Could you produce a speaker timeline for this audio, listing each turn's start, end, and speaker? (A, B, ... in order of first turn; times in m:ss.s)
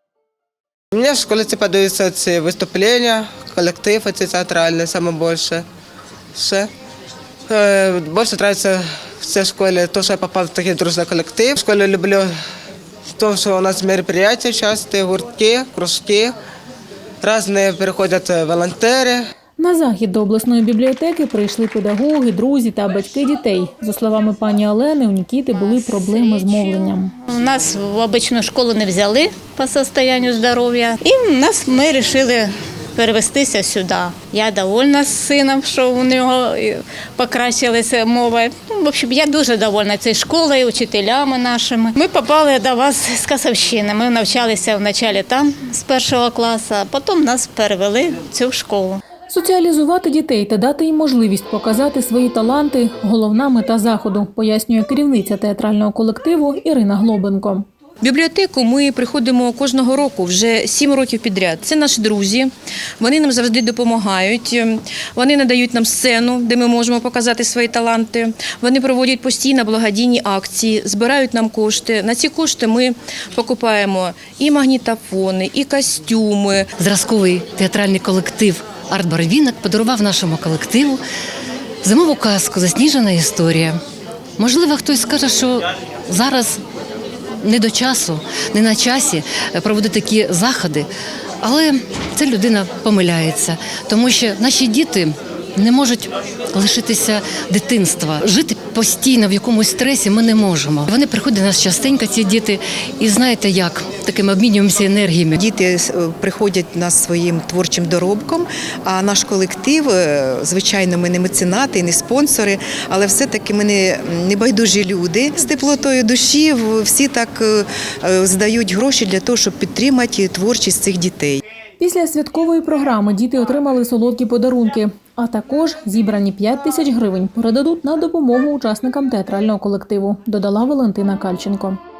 0:00.9-0:05.7 A
0:06.4-0:06.7 A
0:07.5-0:12.3 A
0:13.2-0:16.4 A
0:17.2-0:19.3 A
0:19.6-0:27.2 B
0:25.7-0:49.0 C
0:49.3-0:57.7 B
0:58.0-1:16.7 D
1:16.8-1:21.0 E
1:21.8-1:23.8 E
1:24.4-1:26.6 E
1:27.4-1:30.9 E
1:31.4-1:45.4 E
1:45.4-2:01.4 F
2:01.8-2:11.8 B